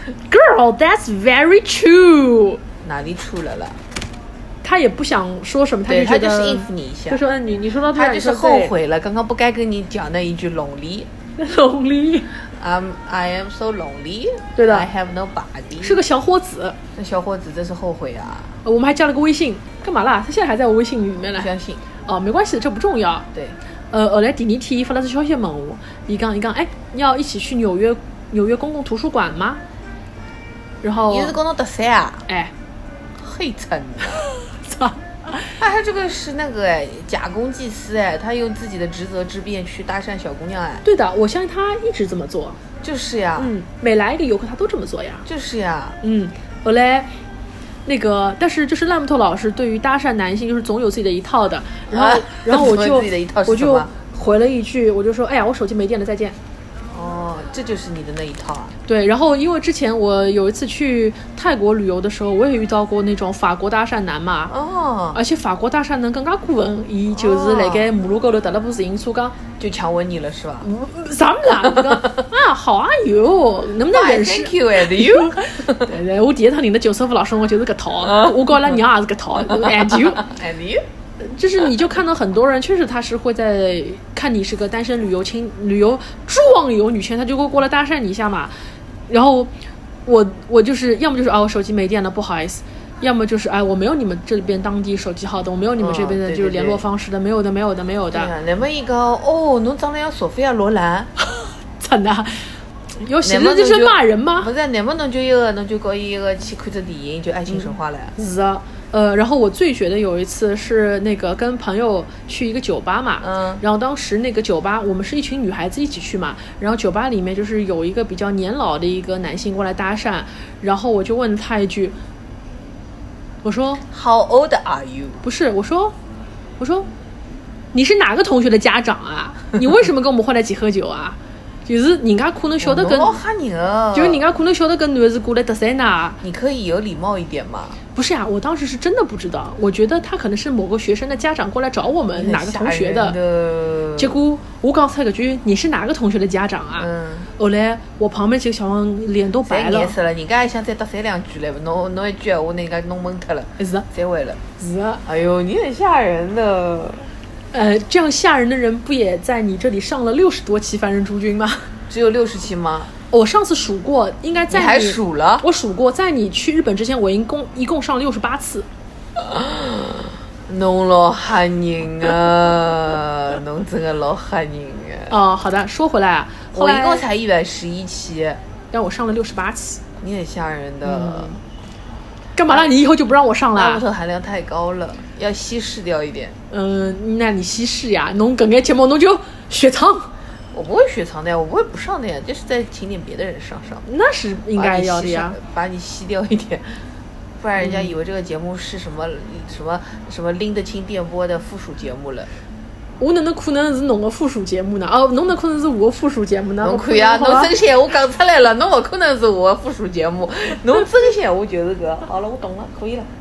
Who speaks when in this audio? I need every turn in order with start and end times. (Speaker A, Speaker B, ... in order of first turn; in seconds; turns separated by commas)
Speaker A: 0.3-2.6, Speaker B: 2.8-3.8, Speaker A: 4.6-8.7, Speaker B: 5.9-7.2, Speaker B: 7.9-11.1, Speaker A: 11.4-12.3, Speaker B: 12.5-16.0, Speaker A: 14.6-14.9, Speaker A: 15.8-16.8, Speaker B: 17.0-18.5, Speaker A: 18.6-21.5, Speaker B: 21.3-21.8, Speaker A: 22.0-23.3, Speaker A: 23.9-29.6, Speaker A: 30.8-31.4, Speaker B: 31.1-32.3, Speaker A: 32.3-32.5, Speaker B: 33.2-34.2, Speaker A: 34.5-35.5, Speaker B: 35.6-40.9, Speaker A: 40.8-42.6, Speaker B: 42.8-43.5, Speaker A: 43.4-45.3, Speaker B: 45.3-46.0, Speaker A: 46.0-47.1, Speaker A: 47.9-56.4, Speaker B: 51.9-53.9, Speaker B: 56.9-58.8, Speaker A: 58.9-64.5, Speaker B: 64.5-65.2, Speaker A: 65.1-69.4, Speaker B: 67.2-67.9, Speaker B: 69.6-70.7, Speaker A: 70.6-80.3, Speaker B: 71.6-72.2, Speaker B: 73.9-75.9, Speaker B: 78.0-78.8, Speaker B: 79.4-80.8, Speaker A: 81.2-88.5, Speaker A: 89.1-89.5, Speaker A: 90.0-98.3, Speaker B: 95.8-96.8, Speaker B: 98.1-101.1, Speaker A: 101.3-104.5, Speaker B: 103.2-108.1, Speaker A: 107.5-122.0, Speaker B: 113.2-113.6, Speaker A: 123.4-123.8, Speaker B: 123.9-125.2, Speaker A: 125.2-126.0, Speaker A: 126.6-126.9, Speaker A: 127.7-133.2, Speaker B: 132.6-134.2, Speaker A: 133.9-136.2, Speaker B: 136.2-137.8, Speaker A: 137.9-143.2, Speaker B: 142.1-144.2, Speaker A: 144.0-149.9, Speaker B: 146.8-147.3, Speaker B: 149.4-154.4, Speaker A: 153.6-153.9, Speaker A: 154.6-155.0, Speaker B: 155.1-157.1, Speaker A: 157.5-161.7, Speaker B: 161.9-162.9, Speaker A: 163.1-168.7, Speaker B: 164.5-165.5, Speaker B: 169.2-175.2, Speaker A: 175.1-177.1, Speaker B: 176.5-178.4, Speaker A: 178.7-179.8, Speaker B: 180.0-181.4, Speaker A: 180.8-181.4, Speaker A: 182.3-183.8, Speaker B: 183.6-186.4, Speaker A: 186.5-190.1, Speaker B: 190.5-193.8, Speaker A: 193.9-195.4, Speaker B: 194.6-196.8, Speaker B: 197.4-202.3, Speaker A: 197.6-197.9, Speaker A: 203.0-207.5, Speaker B: 206.6-213.1